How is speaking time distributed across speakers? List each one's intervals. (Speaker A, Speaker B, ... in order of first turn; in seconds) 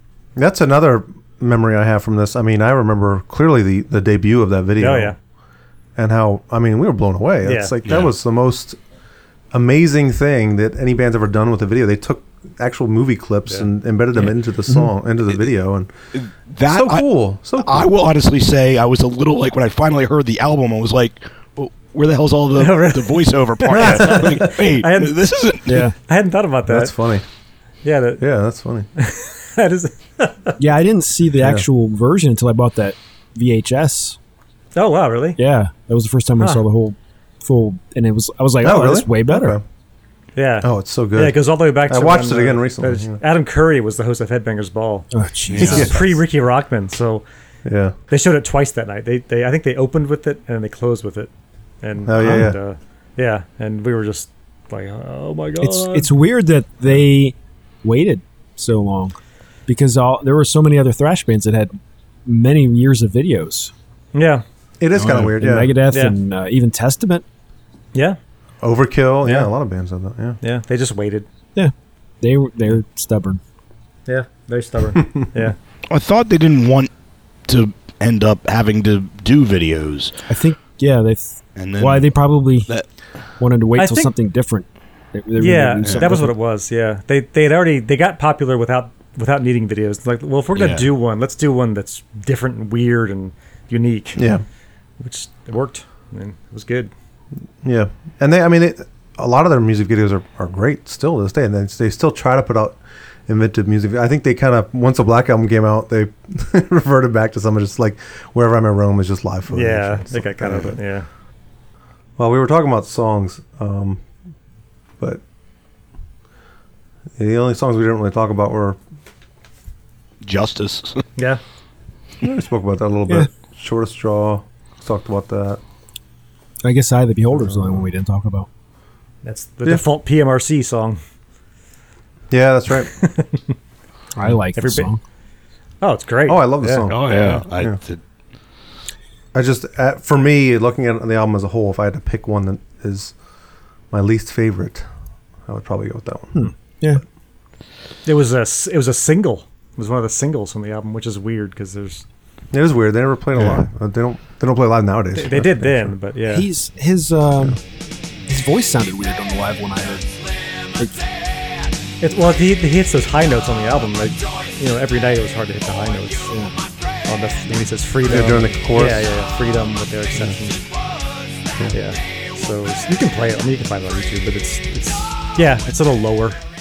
Speaker A: 0.3-5.1, 6.0-8.8, 9.5-15.9, 16.6-17.9, 23.7-24.5, 26.7-27.2, 28.2-28.9, 31.4-31.7, 38.6-39.6, 40.6-43.2, 45.7-46.0, 47.6-48.0, 52.0-52.6, 64.8-65.7, 68.6-70.4, 94.2-94.4, 97.6-110.8, 112.2-114.0, 117.2-118.8, 122.2-125.6, 127.3-127.9, 132.3-132.9, 136.3-137.8, 139.3-143.1, 143.9-144.8, 145.5-146.4, 152.5-155.9, 168.1-169.1
Speaker B: 4.8-5.2, 7.4-7.7, 22.6-25.1, 26.0-26.9, 27.8-28.2, 29.0-30.5, 34.7-35.4, 40.4-45.1, 45.6-47.2, 48.1-51.3, 51.8-56.1, 64.1-64.4, 70.4-71.3, 74.1-75.6, 83.8-84.1, 85.4-94.3, 95.0-96.9, 109.5-111.1, 129.2-131.0, 132.8-133.5, 134.5-134.9, 135.8-137.4, 148.0-152.0, 155.1-156.5, 162.0-166.3, 167.1-170.6, 171.7-176.4
Speaker C: 7.8-8.1, 16.1-25.9, 45.5-45.9, 75.9-76.9, 77.5-80.1, 81.5-82.8, 85.8-86.1, 90.5-90.8, 120.2-121.0, 136.9-138.0
Speaker D: 25.6-25.9, 30.6-34.2, 35.4-39.6, 45.1-46.0, 55.6-59.1, 59.7-63.7, 65.2-67.2, 71.5-73.4, 80.3-82.7, 83.4-86.3, 126.6-128.5, 134.1-135.0, 146.3-147.0, 156.3-157.6, 158.3-160.1